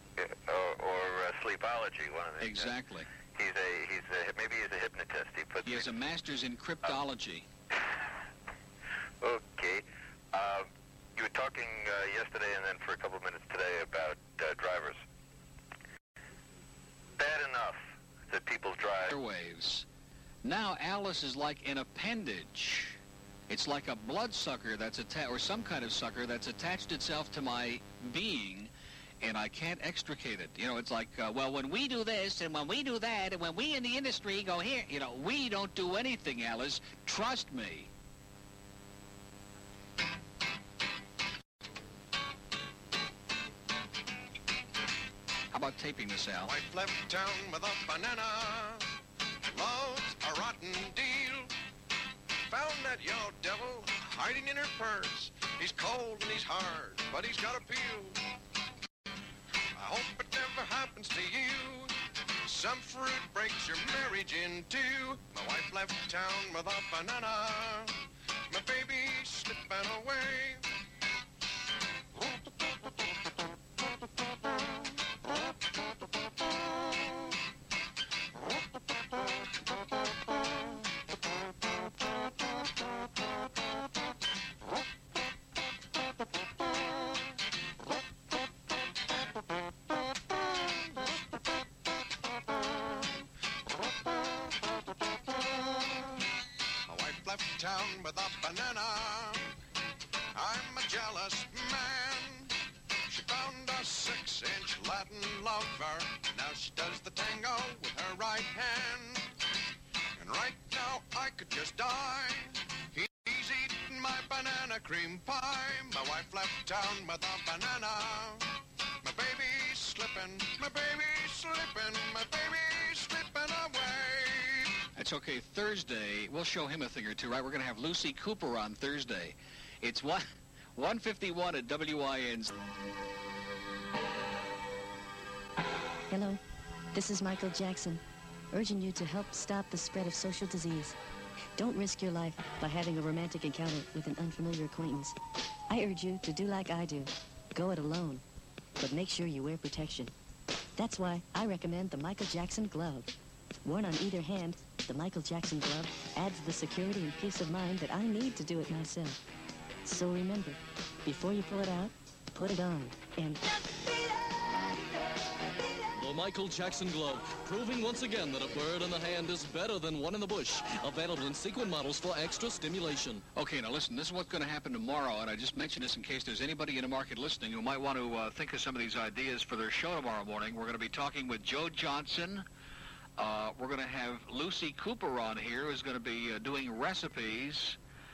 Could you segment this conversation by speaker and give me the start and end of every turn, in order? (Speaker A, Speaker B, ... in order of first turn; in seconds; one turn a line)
Speaker A: 0.2-2.7
Speaker B: 2.4-3.1
Speaker A: 3.4-5.9
Speaker B: 5.7-7.5
Speaker A: 9.2-15.0
Speaker A: 17.2-19.1
Speaker B: 19.1-19.9
Speaker B: 20.4-37.9
Speaker B: 45.5-46.5
Speaker C: 46.4-48.9
Speaker C: 49.5-51.5
Speaker C: 52.5-58.2
Speaker C: 59.8-68.0
Speaker C: 68.5-70.6
Speaker C: 96.9-99.5
Speaker C: 100.3-102.5
Speaker C: 103.1-109.3
Speaker C: 110.2-118.5
Speaker C: 119.0-124.7
Speaker B: 125.0-132.5
Speaker D: 136.1-136.4
Speaker D: 136.9-138.0
Speaker D: 138.5-140.9
Speaker D: 141.6-145.2
Speaker D: 145.7-148.2
Speaker D: 148.8-150.1
Speaker D: 150.8-153.1
Speaker D: 153.7-159.2
Speaker D: 159.8-163.4
Speaker E: 165.9-173.2
Speaker B: 173.3-182.4
Speaker B: 183.2-187.8